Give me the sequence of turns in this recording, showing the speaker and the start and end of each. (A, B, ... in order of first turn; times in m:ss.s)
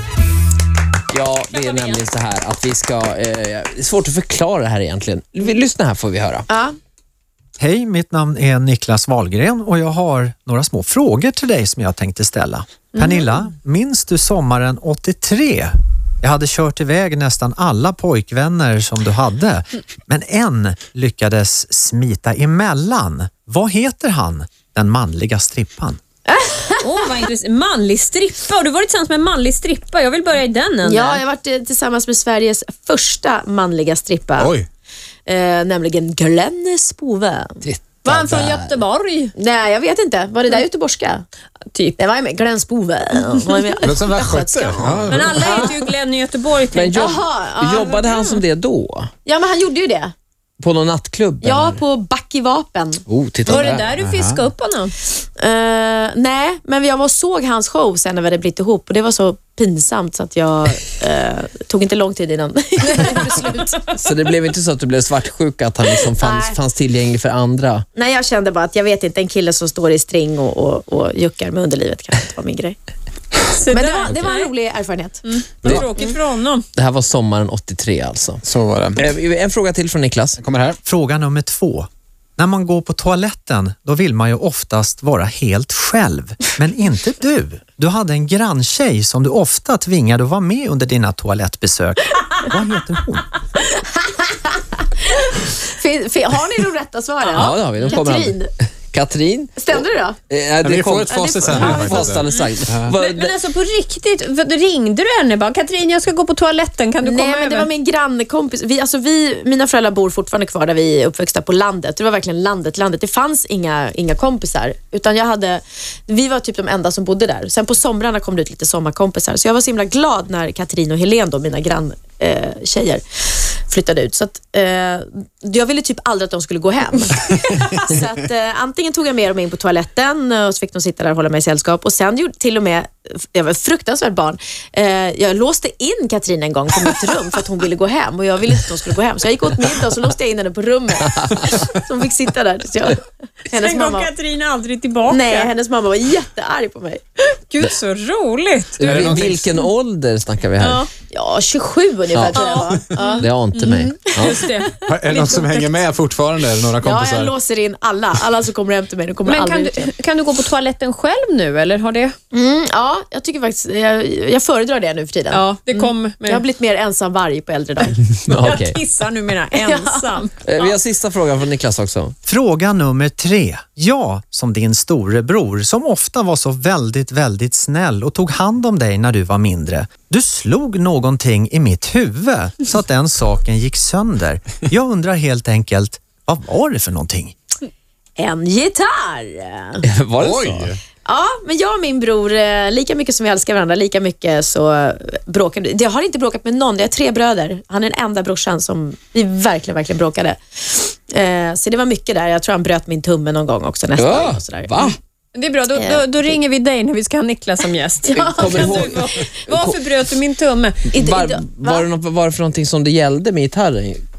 0:01.1-0:06.4 A
0:01.5-0:02.0 B
0:06.5-0:06.8 C
0:07.6-0:26.0 D
0:26.2-0:27.1 C
0:26.8-0:31.2 B
0:30.8-0:34.5 C
0:34.4-0:34.7 E
0:35.2-0:38.4 C
0:37.6-0:38.8 A
0:38.1-0:39.3 B
0:39.4-0:41.2 C
0:42.0-0:45.8 C
0:43.8-0:45.6 E
0:45.1-0:47.2 B
0:46.7-0:49.1 A
0:46.9-0:48.0 C
0:47.7-0:48.4 B
0:49.2-0:50.1 C
0:50.6-0:51.8 A
0:51.4-0:53.0 C
0:53.1-0:53.9 A
0:53.5-0:54.9 B
0:53.9-0:54.4 E
0:55.2-1:04.0 C
1:02.9-1:03.5 B
1:04.0-1:07.8 A
1:06.1-1:06.6 C
1:07.9-1:12.8 C
1:13.5-1:14.5 B
1:13.7-1:16.2 C
1:15.2-1:16.6 B
1:16.8-1:18.4 A
1:18.4-1:19.1 E
1:19.0-1:20.4 A
1:20.4-1:20.8 E
1:20.8-1:33.3 D
1:33.6-1:38.5 C
1:37.2-1:43.4 A
1:39.6-1:40.2 C
1:40.6-1:42.9 E
1:41.1-1:42.1 C
1:42.3-1:47.7 B
1:47.0-2:24.1 C
2:21.1-2:21.5 A
2:23.5-2:25.5 B
2:25.1-2:27.2 C
2:27.5-2:29.3 B
2:28.8-2:30.8 A
2:28.8-2:29.5 E
2:30.6-2:30.8 B
2:30.7-2:34.7 C
2:32.1-2:34.4 A
2:32.3-2:35.8 B
2:34.8-2:37.3 E
2:36.8-2:39.9 C
2:39.2-2:42.1 B
2:42.3-2:48.0 C
2:45.3-2:46.4 B
2:48.2-2:48.8 A
2:48.3-2:50.7 B
2:49.5-2:50.2 C
2:50.4-2:52.1 A
2:52.2-3:07.3 D
3:08.2-3:09.8 C
3:09.8-3:10.7 A
3:10.2-3:10.8 E
3:11.0-3:24.9 C
3:24.0-3:25.0 A
3:25.3-3:30.9 B
3:25.7-3:26.3 C
3:28.0-3:29.0 C
3:28.1-3:29.8 A
3:30.9-3:31.8 C
3:30.9-3:34.0 A